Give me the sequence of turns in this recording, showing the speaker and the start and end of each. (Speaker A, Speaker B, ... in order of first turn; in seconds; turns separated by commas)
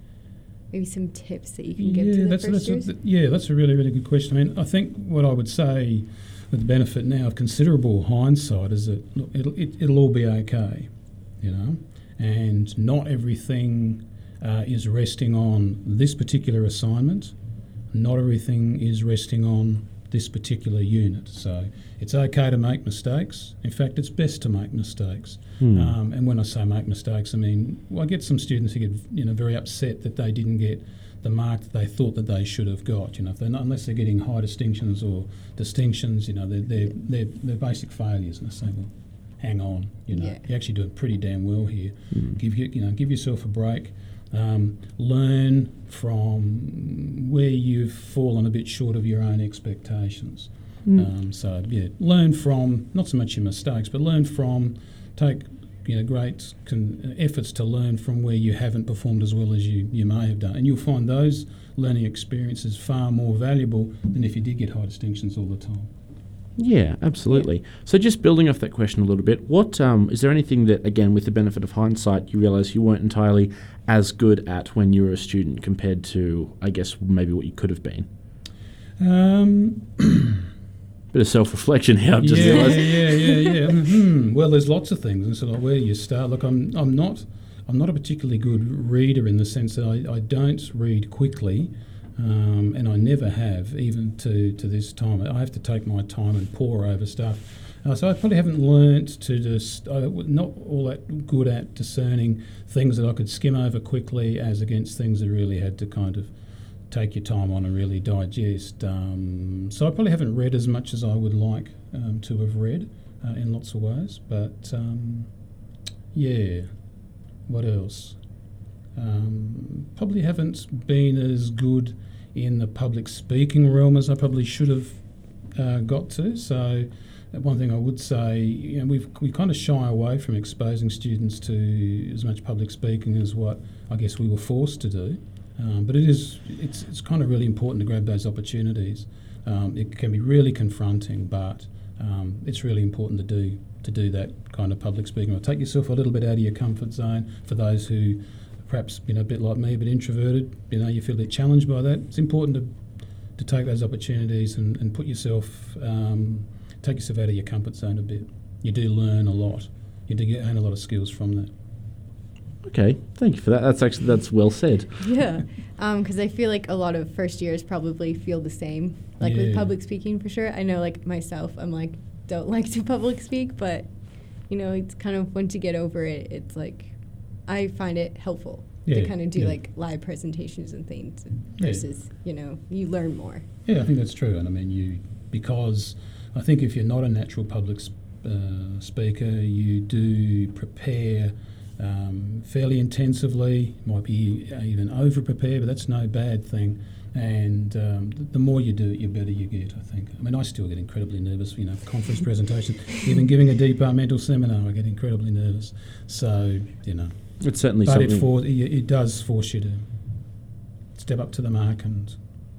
Speaker A: 0.7-2.9, Speaker B: 1.8-17.3, Speaker B: 17.9-65.9, Speaker C: 25.6-25.9, Speaker A: 40.1-40.4, Speaker C: 42.1-42.4, Speaker C: 66.6-78.1, Speaker B: 79.0-80.4, Speaker C: 81.1-83.0, Speaker B: 82.2-106.3, Speaker A: 82.5-83.3, Speaker B: 106.9-115.3, Speaker B: 116.1-116.7, Speaker B: 117.5-118.2, Speaker B: 118.9-152.7, Speaker B: 153.3-161.5, Speaker C: 162.6-165.0, Speaker A: 165.0-183.4, Speaker B: 169.2-169.7, Speaker B: 178.8-179.6, Speaker B: 181.6-181.8, Speaker B: 183.7-209.8, Speaker C: 207.4-208.3, Speaker B: 210.9-212.2